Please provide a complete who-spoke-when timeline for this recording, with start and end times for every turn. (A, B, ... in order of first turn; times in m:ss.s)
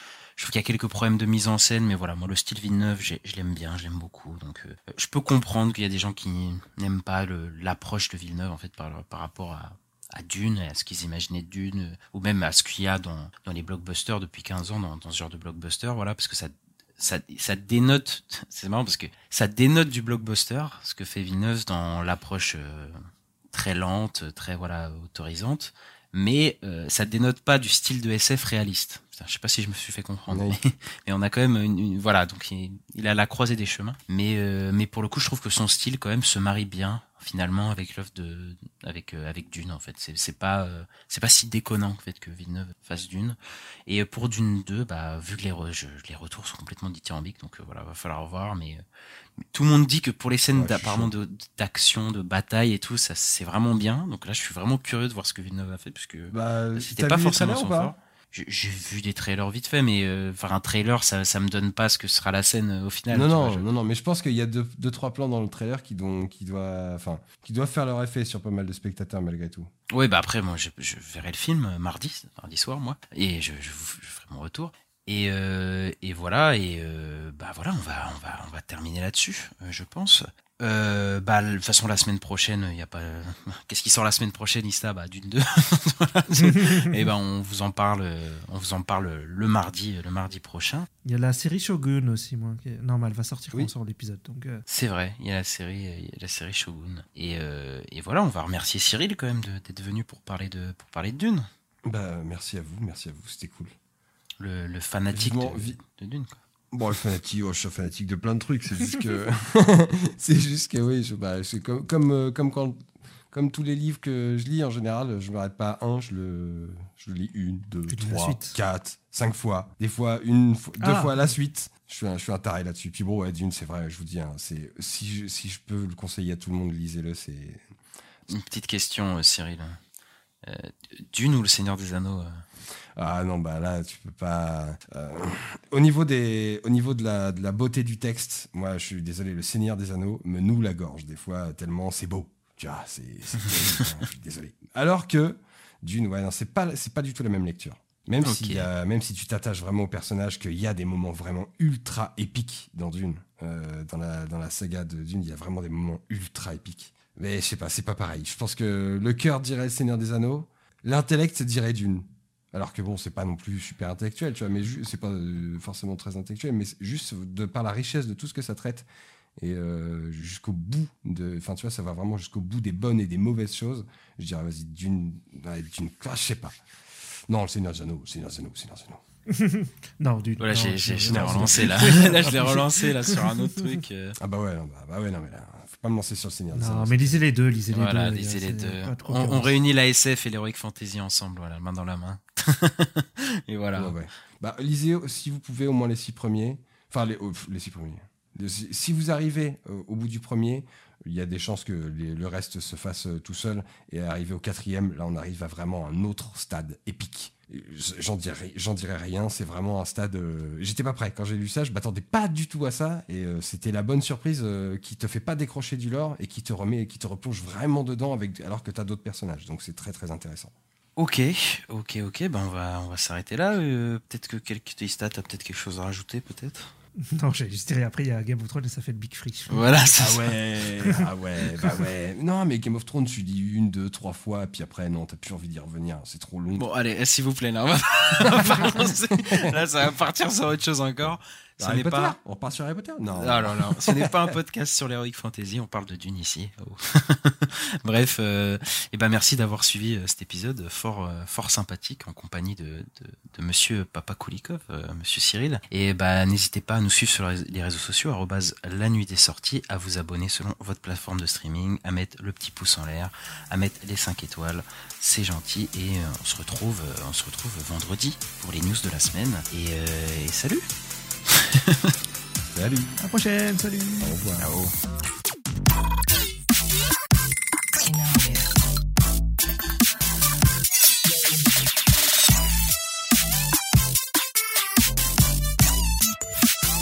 0:00.4-0:48.8 A
0:30.3-0:30.6 B
0:49.5-1:03.7 A
0:50.5-0:51.1 B
0:56.3-0:58.0 B
1:03.1-1:09.7 B
1:09.9-1:30.9 A
1:31.0-1:34.6 C
1:34.7-1:41.5 A
1:41.8-1:43.8 B
1:44.4-1:46.4 A
1:45.1-1:45.8 B
1:46.7-2:07.6 B
1:57.9-1:58.6 C
2:00.8-2:01.3 C
2:08.3-2:09.8 A
2:10.4-2:12.4 A
2:13.0-2:48.9 B
2:28.2-2:28.7 A
2:49.4-2:59.0 B
2:59.3-3:03.5 C
3:00.4-3:04.2 A
3:01.1-3:02.2 B
3:04.2-3:07.2 B
3:06.5-3:09.6 C
3:07.7-3:14.0 A
3:13.8-3:40.5 B
3:41.0-3:46.7 A
3:47.0-3:49.8 C
3:49.5-3:50.3 A
3:50.0-3:56.7 B
3:56.6-4:02.2 A
3:58.2-3:59.6 B
4:01.6-4:04.2 B
4:03.2-4:30.7 A
4:31.3-4:31.9 A
4:32.5-4:33.0 B
4:33.0-4:34.2 C
4:34.0-4:34.6 B
4:34.4-4:34.7 A